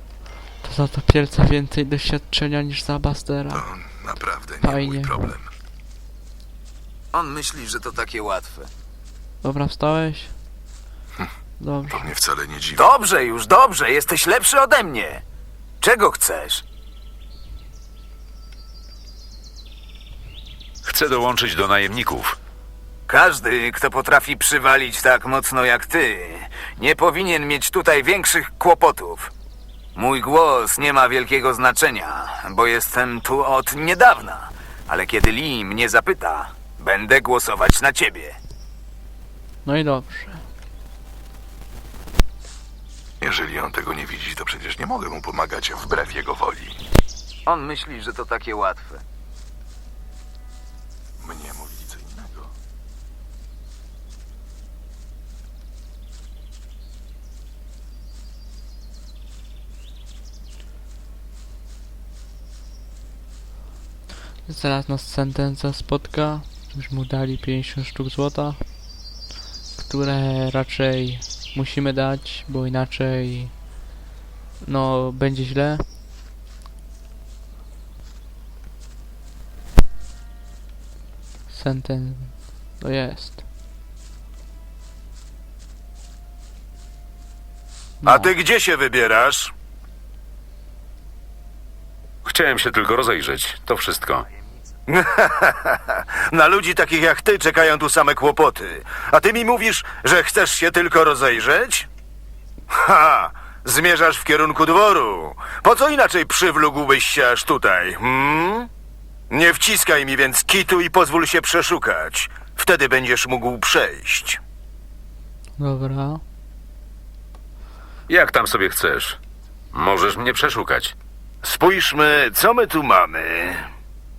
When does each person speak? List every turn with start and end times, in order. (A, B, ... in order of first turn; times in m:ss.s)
0:00.6-0:03.7 A
0:03.5-0:05.5 B
0:04.6-0:05.4 A
0:07.1-0:08.7 C
0:09.4-0:10.4 A
0:11.6-0:12.1 A
0:11.9-0:12.9 B
0:12.8-0:15.2 C
0:15.8-0:16.6 C
0:20.8-0:22.4 D
0:23.1-0:29.3 C
0:29.9-0:38.4 C
0:39.6-0:40.4 A
0:43.2-0:46.8 B
0:47.4-0:49.0 C
0:51.2-0:52.5 B
1:04.5-1:08.6 A
1:09.8-1:13.6 A
1:14.6-1:15.8 A
1:21.5-1:23.4 A
1:28.0-1:28.3 A
1:28.0-1:29.5 E
1:32.2-1:34.2 D
1:34.9-1:41.9 E
1:42.7-1:48.7 E
1:49.3-1:54.4 E
1:55.6-1:56.2 A
1:58.1-1:59.2 D
1:59.7-2:00.9 D
2:01.4-2:03.7 E